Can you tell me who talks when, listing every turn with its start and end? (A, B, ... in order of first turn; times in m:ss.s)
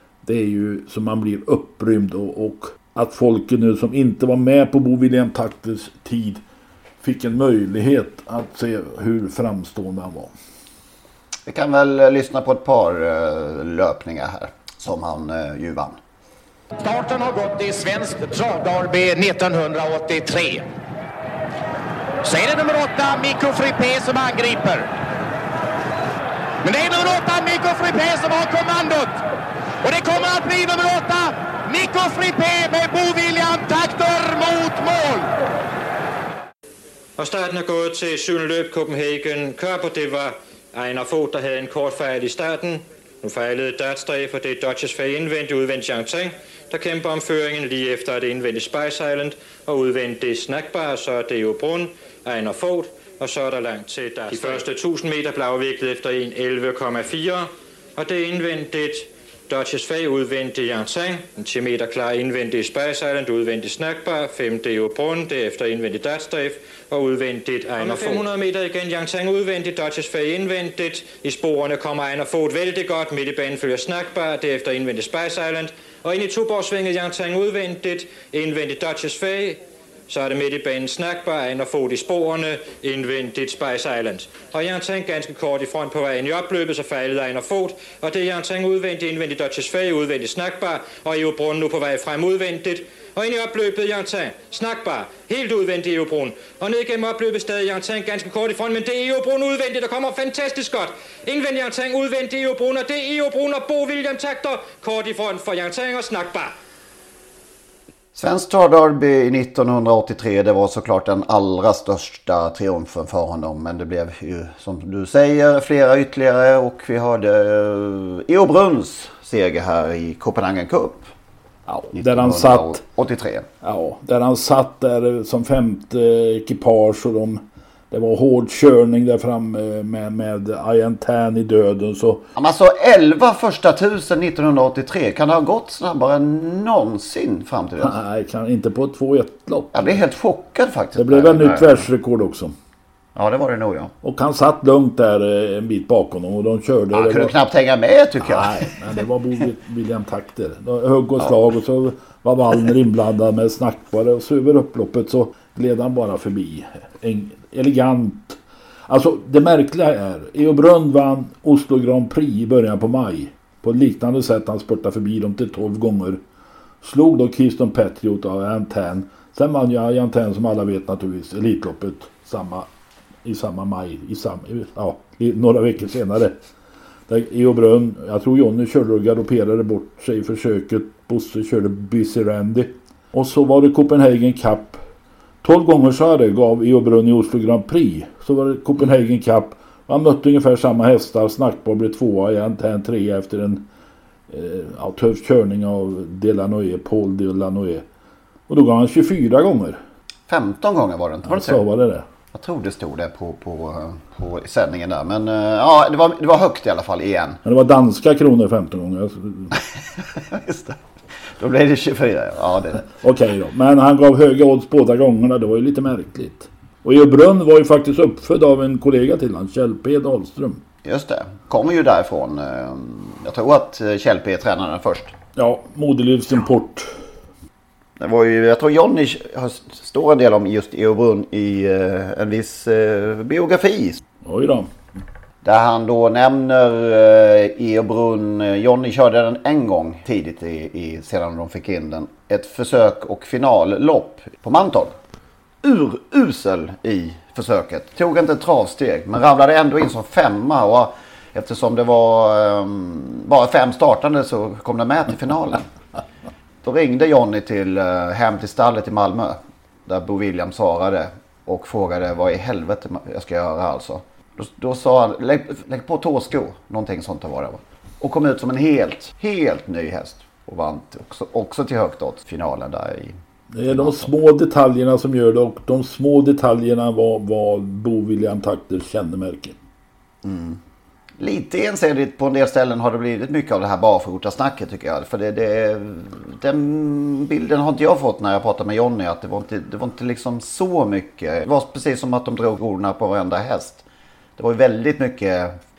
0:00.2-0:06.4 A
0:07.0-0:10.3 A
0:11.5-0:16.0 B
0:16.8-0:20.6 C
0:22.2-0:24.9 C
0:26.6-0:29.2 C
0:29.8-0:35.3 C
0:37.2-1:46.5 D
1:48.1-2:01.1 B
2:01.7-2:02.8 A
2:01.9-2:03.4 B
2:03.6-2:12.2 A
2:12.4-2:18.0 B
2:17.8-2:20.0 A
2:19.7-2:21.9 B
2:21.0-2:22.5 A
2:23.2-2:23.9 B
2:24.0-2:27.3 A
2:26.9-2:28.7 B
2:28.2-2:46.2 A
2:46.8-2:52.7 A
2:53.2-2:56.4 A
2:57.1-3:04.8 A
3:05.4-3:13.6 A
3:14.3-3:17.8 A
3:18.5-3:19.8 A
3:20.3-3:21.6 B
3:21.3-3:22.0 A
3:22.3-3:27.4 B
3:27.4-3:29.5 A
3:29.6-3:30.8 B
3:31.4-3:32.9 B
3:33.0-3:40.6 A
3:40.8-3:45.1 B
3:45.4-3:46.9 A
3:48.0-3:54.0 B
3:54.2-3:54.7 A
3:55.4-4:04.9 B
4:05.6-4:15.6 B
4:16.6-4:33.1 B
4:33.5-4:39.6 A
4:33.7-4:34.1 B
4:40.2-4:40.6 B
4:41.2-4:53.8 B
4:54.4-4:55.6 B